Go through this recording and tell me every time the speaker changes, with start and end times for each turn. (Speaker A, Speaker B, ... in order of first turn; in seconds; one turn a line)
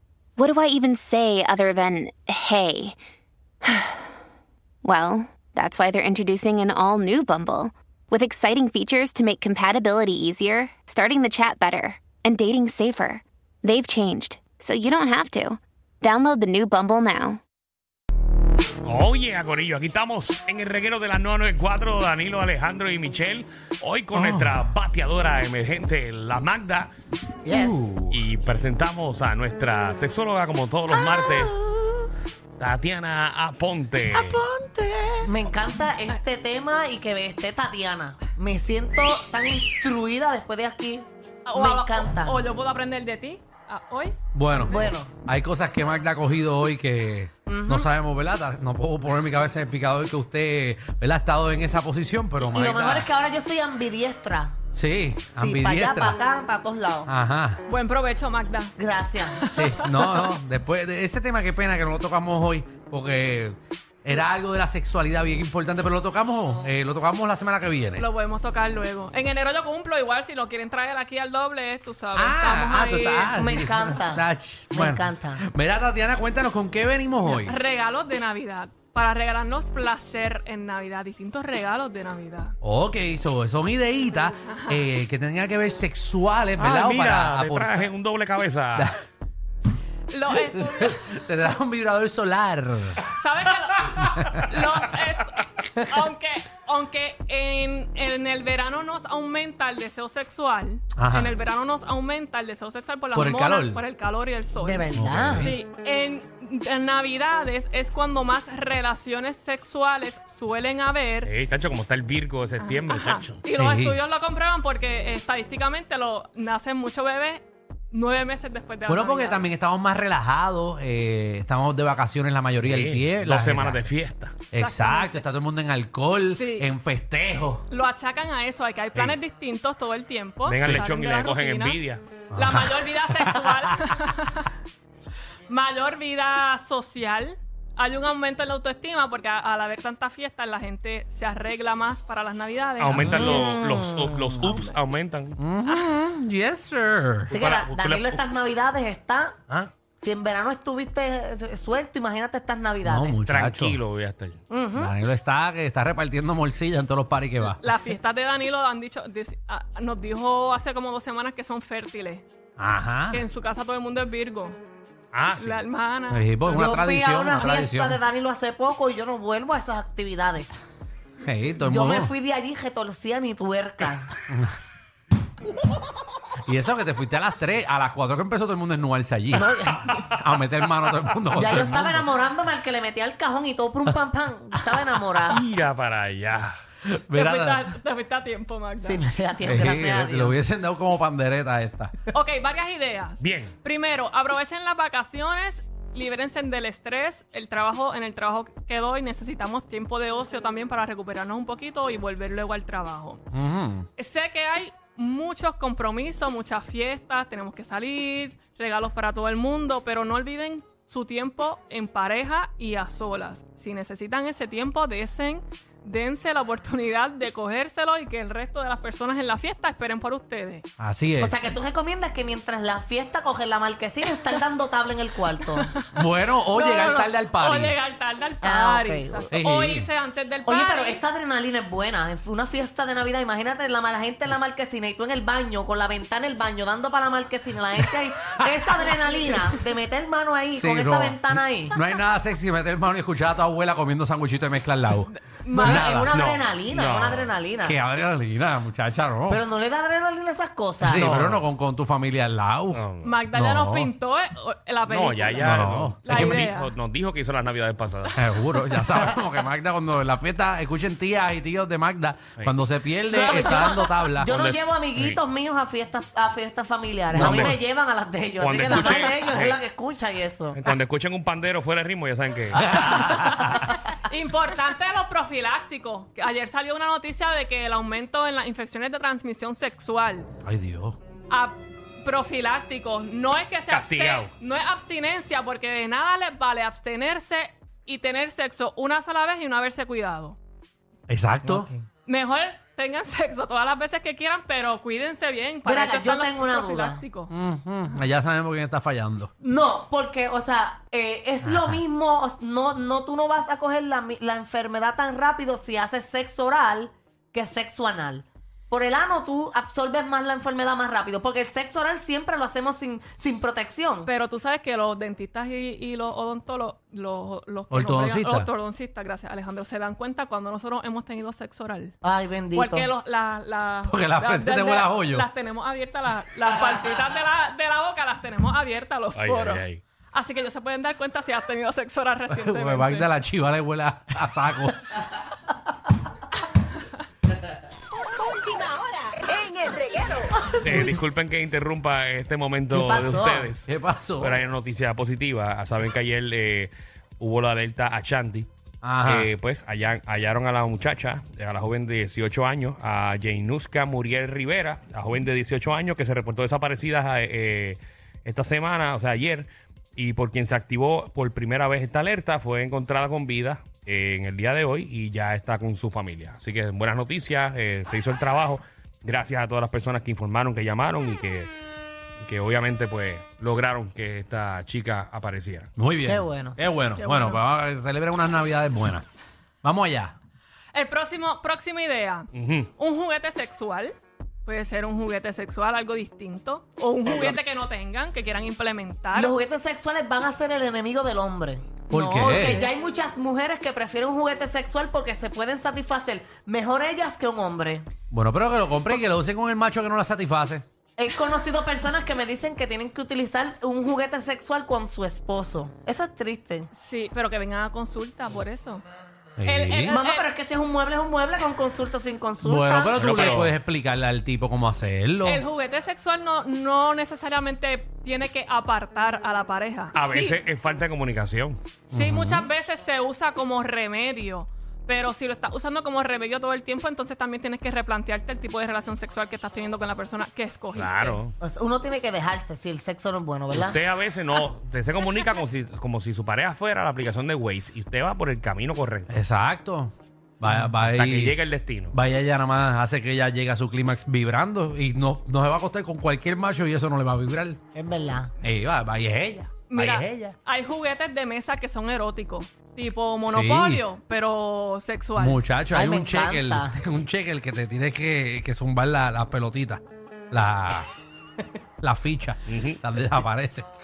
Speaker A: 0.4-3.0
Speaker A: 3.6-4.0
Speaker A: 4.8-17.4
Speaker B: 18.9-26.9
Speaker C: 24.1-24.7
Speaker D: 27.4-28.0
Speaker C: 27.5-28.2
Speaker B: 28.1-31.6
Speaker C: 31.1-31.9
Speaker B: 32.6-34.4
Speaker C: 34.1-35.4
Speaker D: 35.2-42.5
Speaker E: 41.5-44.2
Speaker C: 44.3-53.1
Speaker D: 44.7-45.1
Speaker D: 47.5-47.9
Speaker D: 52.4-54.6
Speaker C: 54.7-56.2
Speaker D: 55.4-57.1
Speaker C: 57.1-57.6
Speaker E: 57.7-58.8
Speaker D: 58.8-59.5
Speaker C: 59.5-68.1
Speaker E: 68.0-73.4
Speaker C: 72.2-77.6
Speaker D: 73.3-75.4
Speaker E: 77.2-82.5
Speaker C: 82.6-87.9
Speaker E: 84.5-84.9
Speaker B: 86.6-88.9
Speaker C: 88.8-89.0
Speaker E: 90.1-91.0
Speaker C: 90.3-93.0
Speaker E: 93.2-104.9
Speaker C: 94.2-94.7
Speaker C: 101.0-101.4
Speaker C: 103.1-103.8
Speaker D: 104.6-105.5
Speaker C: 104.9-105.5
Speaker E: 105.4-111.3
Speaker B: 111.2-113.4
Speaker E: 112.6-119.5
Speaker C: 113.5-114.0
Speaker C: 118.9-123.9
Speaker B: 122.6-124.4
Speaker C: 124.5-127.7
Speaker E: 124.5-125.2
Speaker E: 126.3-126.7
Speaker E: 127.7-131.8
Speaker B: 130.4-132.1
Speaker C: 130.6-130.8
Speaker C: 132.3-133.8
Speaker E: 132.3-134.5
Speaker E: 135.5-143.4
Speaker B: 142.8-145.4
Speaker D: 143.0-144.4
Speaker C: 145.4-147.3
Speaker E: 145.7-146.0
Speaker B: 147.3-148.2
Speaker D: 147.3-149.4
Speaker D: 150.0-153.2
Speaker C: 152.8-153.8
Speaker B: 153.3-154.4
Speaker D: 154.5-154.9
Speaker C: 154.8-157.6
Speaker E: 157.5-162.2
Speaker C: 162.6-163.2
Speaker E: 163.1-164.6
Speaker B: 165.1-165.6
Speaker E: 165.4-166.8
Speaker C: 166.1-168.0
Speaker D: 166.5-170.5
Speaker C: 171.2-172.1
Speaker D: 171.6-174.1
Speaker C: 176.5-182.1
Speaker D: 179.3-180.1
Speaker D: 181.3-185.4
Speaker B: 185.3-186.5
Speaker C: 186.8-187.7
Speaker E: 187.1-189.0
Speaker D: 188.8-190.3
Speaker C: 189.4-192.0
Speaker E: 192.1-203.2
Speaker B: 193.2-193.5
Speaker C: 203.3-203.9
Speaker E: 204.0-220.7
Speaker C: 220.8-221.4
Speaker D: 221.2-225.7
Speaker E: 225.6-231.0
Speaker C: 225.9-227.8
Speaker D: 228.4-229.3
Speaker C: 229.3-229.9
Speaker D: 230.5-241.8
Speaker C: 238.7-239.3
Speaker C: 240.5-246.2
Speaker E: 245.1-246.0
Speaker D: 245.5-247.8
Speaker B: 246.1-247.3
Speaker C: 247.6-249.4
Speaker D: 249.3-251.2
Speaker C: 250.8-253.8
Speaker B: 250.9-251.4
Speaker B: 252.7-253.2
Speaker E: 253.0-256.7
Speaker B: 254.9-258.2
Speaker C: 255.4-256.5
Speaker C: 258.1-264.3
Speaker E: 263.1-263.9
Speaker D: 263.1-270.6
Speaker B: 264.2-265.2
Speaker C: 267.1-267.6
Speaker B: 267.1-267.6
Speaker B: 268.4-269.6
Speaker B: 270.6-273.0
Speaker C: 272.5-273.6
Speaker E: 272.8-280.3
Speaker C: 280.4-281.0
Speaker E: 281.3-290.4
Speaker B: 283.7-284.3
Speaker C: 291.1-291.7
Speaker D: 291.4-291.7
Speaker E: 292.1-297.3
Speaker D: 295.7-297.0
Speaker C: 297.3-299.3
Speaker D: 299.4-314.1
Speaker C: 301.4-301.8
Speaker E: 314.1-322.0
Speaker C: 317.7-318.5
Speaker D: 322.0-322.9
Speaker E: 322.5-333.1
Speaker C: 323.9-325.3
Speaker B: 329.2-329.8
Speaker C: 332.3-334.9
Speaker B: 340.6-348.5
Speaker D: 342.7-343.5
Speaker C: 343.7-344.4
Speaker C: 348.8-349.3
Speaker B: 349.0-371.5
Speaker B: 372.2-375.7
Speaker C: 375.8-379.1
Speaker D: 376.1-376.6
Speaker E: 377.0-377.4
Speaker C: 379.6-380.2
Speaker E: 380.7-389.3
Speaker B: 382.3-382.7
Speaker D: 389.1-397.9
Speaker C: 391.9-392.6
Speaker E: 391.9-392.7
Speaker C: 398.1-400.6
Speaker D: 401.0-406.7
Speaker E: 406.7-408.9
Speaker C: 409.4-409.9
Speaker E: 409.4-410.3
Speaker D: 409.9-413.4
Speaker C: 412.4-415.4
Speaker B: 412.9-413.6
Speaker E: 415.2-420.4
Speaker B: 419.9-421.6
Speaker C: 421.9-422.5
Speaker E: 421.9-431.2
Speaker B: 430.7-431.4
Speaker D: 431.4-433.8
Speaker B: 433.5-439.2
Speaker C: 439.1-441.4
Speaker B: 440.9-442.0
Speaker C: 441.9-447.6
Speaker D: 447.7-448.3
Speaker C: 448.4-450.4
Speaker E: 449.7-455.4
Speaker C: 453.3-453.9
Speaker C: 455.2-460.9
Speaker D: 455.7-456.8
Speaker C: 461.8-463.7
Speaker B: 462.5-462.8